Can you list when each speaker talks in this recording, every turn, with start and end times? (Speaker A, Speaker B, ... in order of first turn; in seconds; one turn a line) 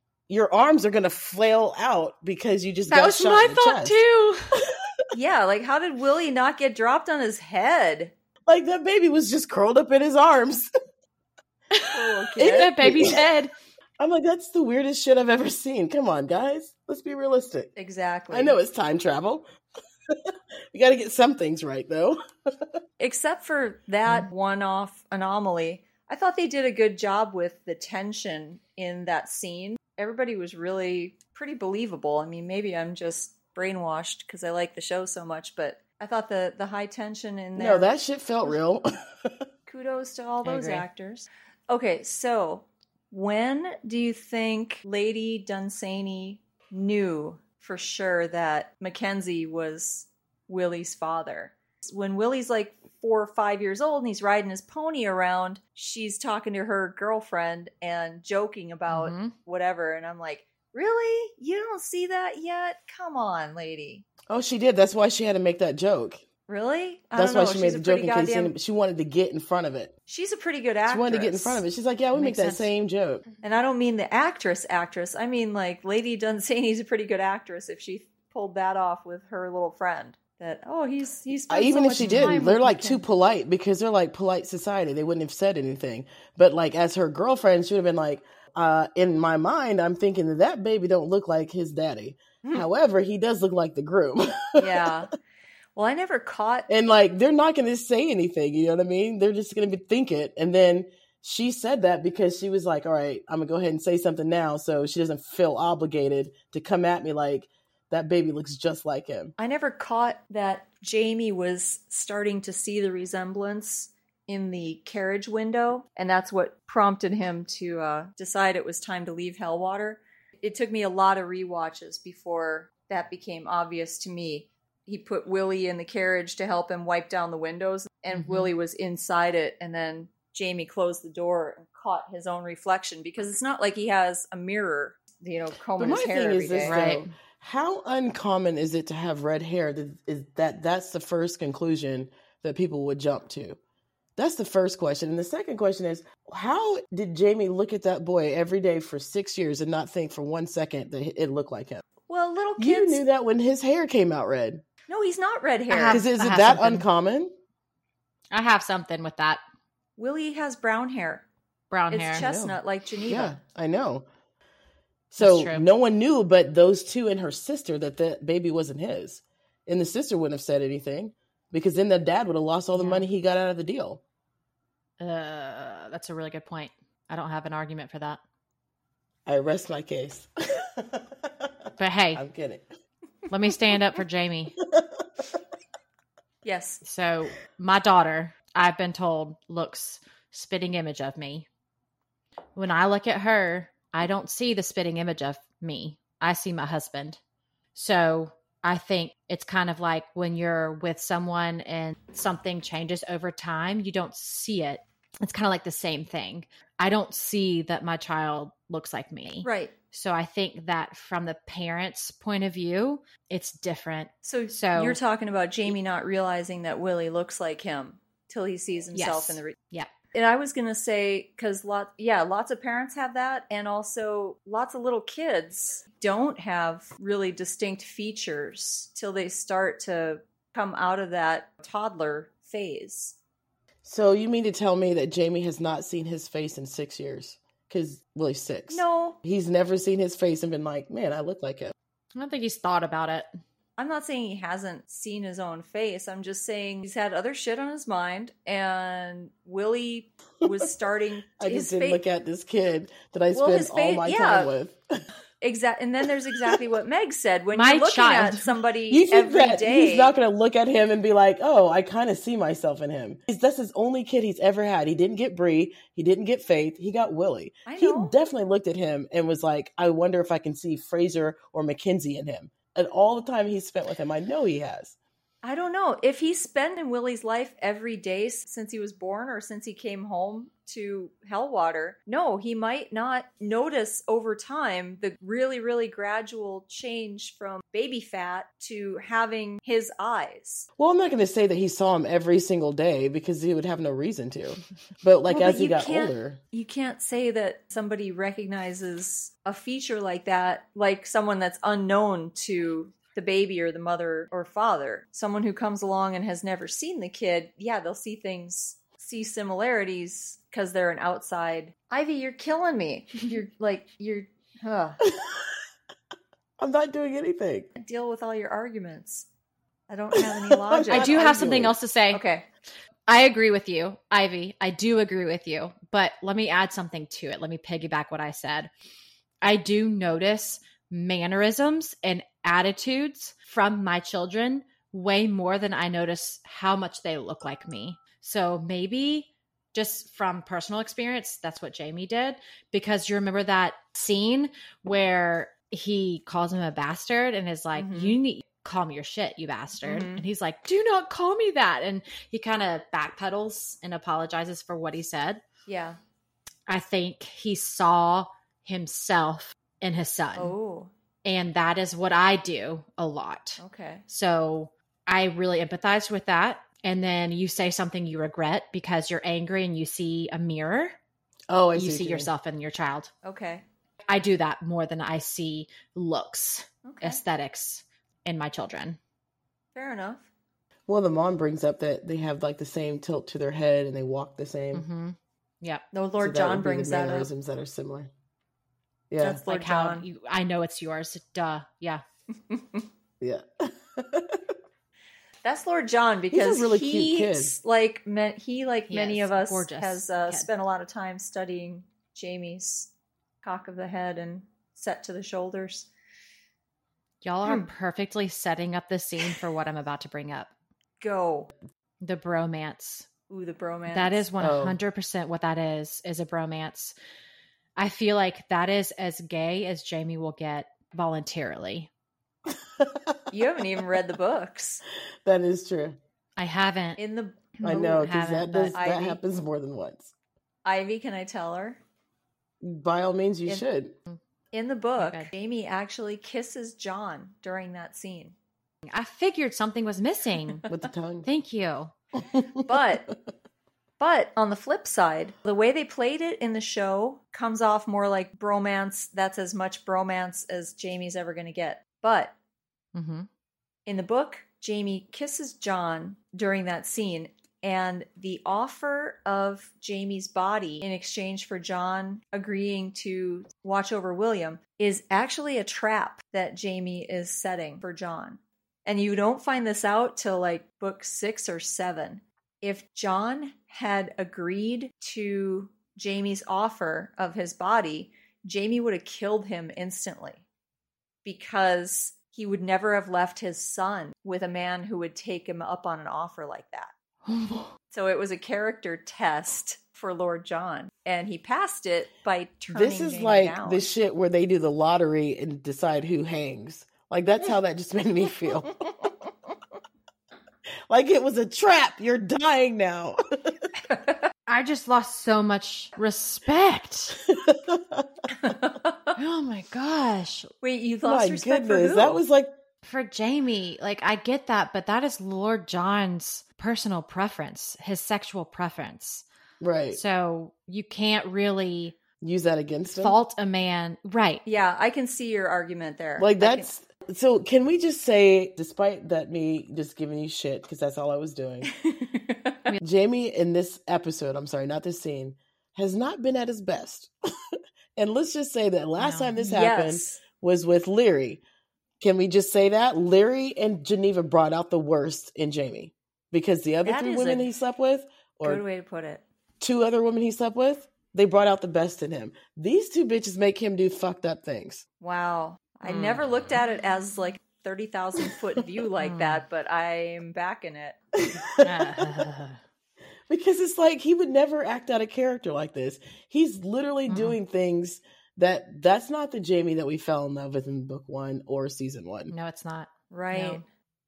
Speaker A: 0.3-4.0
Speaker B: 2.9-4.6
Speaker A: 4.6-4.8
Speaker C: 5.1-8.1
Speaker A: 8.5-10.7
Speaker B: 11.7-13.5
Speaker C: 11.9-12.7
Speaker A: 12.4-13.2
Speaker A: 14.0-17.7
Speaker C: 17.8-18.6
Speaker A: 18.3-19.4
Speaker A: 20.1-22.7
Speaker C: 23.0-37.9
Speaker A: 37.6-39.5
Speaker C: 39.7-64.0
Speaker B: 40.4-40.9
Speaker B: 58.9-59.3
Speaker A: 64.3-66.2
Speaker C: 66.5-68.5
Speaker A: 67.1-69.9
Speaker C: 70.1-71.6
Speaker A: 70.9-73.2
Speaker B: 72.1-72.7
Speaker C: 73.4-83.0
Speaker A: 81.5-95.0
Speaker B: 82.0-82.7
Speaker C: 94.6-95.1
Speaker C: 95.8-96.7
Speaker A: 96.7-109.3
Speaker C: 109.4-136.9
Speaker B: 128.1-128.5
Speaker A: 135.8-143.6
Speaker B: 136.6-137.1
Speaker A: 144.2-151.8
Speaker C: 152.1-153.0
Speaker A: 152.6-154.6
Speaker C: 154.9-156.0
Speaker B: 155.7-156.8
Speaker A: 155.9-157.3
Speaker B: 158.3-159.4
Speaker C: 160.0-161.2
Speaker B: 161.7-162.3
Speaker C: 161.9-163.4
Speaker A: 162.2-164.1
Speaker A: 165.1-174.0
Speaker B: 165.2-165.7
Speaker B: 172.8-173.1
Speaker B: 175.0-178.2
Speaker A: 179.3-181.5
Speaker B: 181.8-182.2
Speaker A: 182.1-182.6
Speaker B: 183.3-184.6
Speaker A: 184.6-185.3
Speaker C: 186.4-186.8
Speaker B: 186.8-191.5
Speaker B: 192.6-197.2
Speaker B: 197.8-215.0
Speaker C: 209.4-209.7
Speaker C: 214.2-219.6
Speaker B: 218.9-219.9
Speaker C: 220.1-233.2
Speaker A: 233.8-241.7
Speaker C: 238.7-239.2
Speaker B: 242.2-243.3
Speaker C: 243.8-252.0
Speaker A: 251.4-254.8
Speaker C: 253.3-254.5
Speaker C: 255.4-260.1
Speaker B: 257.5-258.5
Speaker A: 258.9-274.9
Speaker C: 267.7-268.2
Speaker C: 275.4-290.7
Speaker A: 290.8-296.4
Speaker C: 295.3-315.0
Speaker A: 315.0-315.6
Speaker A: 316.6-317.7
Speaker C: 317.8-319.3
Speaker C: 319.9-322.4
Speaker A: 320.1-321.8
Speaker B: 320.9-322.2
Speaker B: 323.1-328.7
Speaker B: 329.4-355.4
Speaker C: 347.8-348.2
Speaker C: 349.8-350.2
Speaker C: 355.7-356.0
Speaker B: 356.7-360.5
Speaker C: 360.4-360.9
Speaker B: 361.2-370.9
Speaker C: 363.6-364.1
Speaker A: 371.5-372.3
Speaker B: 371.8-373.1
Speaker C: 373.2-373.6
Speaker B: 374.1-379.0
Speaker C: 376.8-377.2
Speaker C: 379.8-380.3
Speaker A: 380.9-384.9
Speaker B: 384.7-385.8
Speaker C: 385.9-387.3
Speaker A: 386.2-388.1
Speaker A: 389.1-389.4
Speaker C: 389.2-390.1
Speaker B: 389.4-392.0
Speaker C: 392.5-392.8
Speaker A: 393.2-394.5
Speaker C: 395.4-402.9
Speaker A: 396.3-397.5
Speaker B: 398.9-400.5
Speaker C: 403.4-405.9
Speaker B: 407.2-410.5
Speaker C: 411.0-411.5
Speaker B: 412.0-413.1
Speaker C: 413.3-414.3
Speaker B: 413.9-416.9
Speaker A: 414.4-414.8
Speaker B: 417.8-421.9
Speaker A: 422.8-423.2
Speaker C: 423.3-424.8
Speaker A: 425.2-426.0
Speaker B: 426.4-427.0
Speaker C: 427.0-428.0
Speaker B: 427.6-428.8
Speaker A: 427.6-430.1
Speaker C: 428.7-429.2
Speaker C: 430.6-431.8
Speaker A: 432.6-433.9
Speaker C: 434.5-438.4
Speaker B: 435.0-435.3
Speaker B: 438.9-440.6
Speaker A: 440.7-441.3
Speaker B: 441.3-441.9
Speaker A: 442.3-442.6
Speaker C: 442.6-443.1
Speaker C: 444.0-452.3
Speaker B: 452.9-453.3
Speaker C: 453.9-480.4
Speaker C: 481.2-486.9
Speaker B: 487.3-487.7
Speaker C: 487.9-493.9
Speaker A: 492.7-499.1
Speaker A: 500.9-503.6
Speaker B: 504.5-507.2
Speaker A: 507.2-508.1
Speaker C: 508.4-509.1
Speaker B: 509.2-510.5
Speaker C: 510.6-512.2
Speaker A: 511.1-512.5
Speaker B: 512.8-519.2
Speaker A: 519.6-520.0
Speaker B: 519.9-522.0
Speaker A: 522.2-523.2
Speaker B: 522.9-524.4
Speaker C: 524.5-526.7
Speaker A: 526.2-531.7
Speaker C: 531.6-532.7
Speaker A: 532.8-537.1
Speaker A: 538.0-541.4
Speaker B: 539.0-539.3
Speaker C: 539.4-540.2
Speaker A: 542.0-548.6
Speaker C: 546.9-547.5
Speaker C: 548.4-549.2
Speaker A: 549.6-554.9
Speaker C: 555.0-561.0
Speaker B: 555.9-556.2
Speaker B: 559.0-559.4
Speaker A: 561.2-562.3
Speaker B: 561.6-562.6
Speaker A: 563.3-572.3
Speaker B: 567.1-567.4
Speaker B: 572.3-573.6
Speaker C: 573.1-573.6